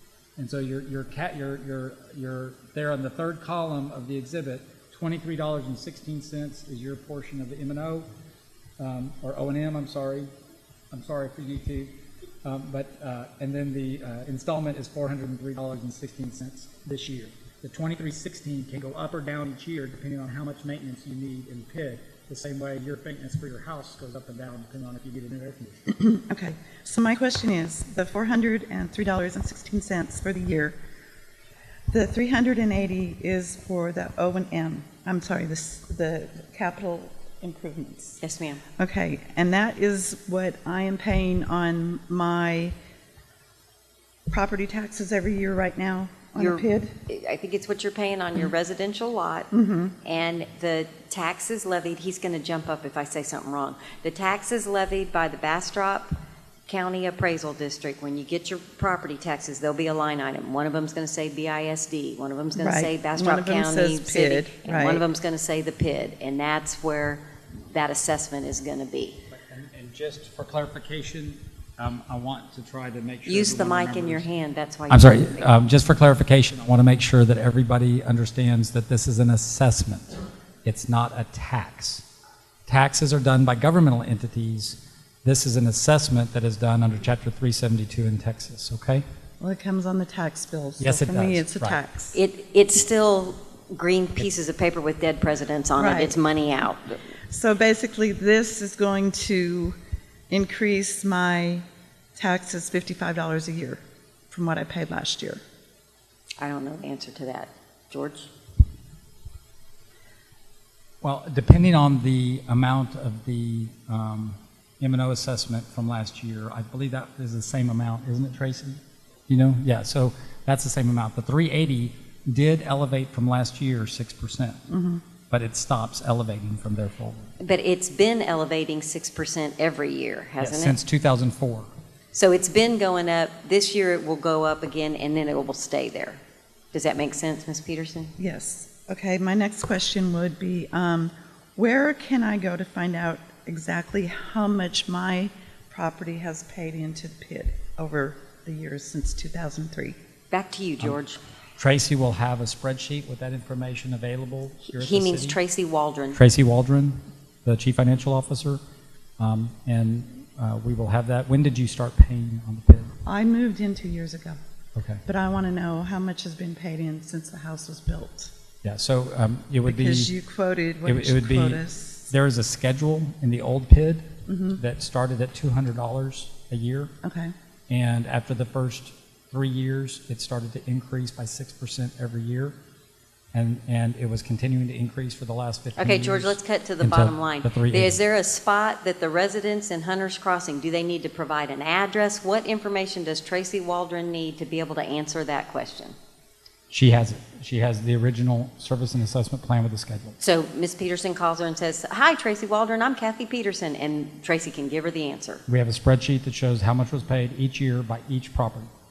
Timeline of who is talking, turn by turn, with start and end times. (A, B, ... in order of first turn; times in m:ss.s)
0:00.4-0:08.1 A
0:08.8-0:10.3 A
0:10.9-0:26.0 A
0:26.0-0:30.8 B
0:31.9-0:38.2 B
0:38.2-0:38.6 C
0:38.8-0:42.7 B
0:44.3-0:47.0 B
0:46.4-0:49.5 C
0:49.5-0:50.0 B
0:50.0-0:56.1 C
0:56.7-1:09.2 C
1:02.6-1:05.0 B
1:09.3-1:14.3 A
1:13.2-1:15.5 C
1:14.9-1:22.0 A
1:22.7-1:29.1 A
1:29.4-1:32.2 B
1:30.8-1:31.8 A
1:32.1-1:37.0 C
1:35.8-1:36.2 B
1:37.3-1:39.8 B
1:40.3-1:41.6 B
1:42.2-1:45.4 B
1:46.4-1:48.3 C
1:51.0-2:04.7 A
2:04.7-2:05.0 B
2:05.3-2:07.3 A
2:07.4-2:10.8 C
2:10.4-2:11.7 A
2:12.1-2:16.2 C
2:16.7-2:18.1 C
2:18.2-2:30.0 B
2:30.3-2:31.2 C
2:31.6-2:35.4 A
2:34.7-2:36.2 C
2:36.1-2:38.6 A
2:39.2-2:42.9 A
2:43.1-2:44.4 B
2:44.8-2:45.0 A
2:45.1-2:48.3 B
2:48.6-2:50.2 A
2:49.6-2:52.1 B
2:50.8-2:56.9 A
2:54.3-2:54.6 B
2:57.0-2:57.3 B
2:57.7-3:02.6 A
3:03.3-3:08.0 A
3:05.8-3:16.0 C
3:16.7-3:20.2 A
3:20.2-3:25.4 C
3:25.5-3:28.7 A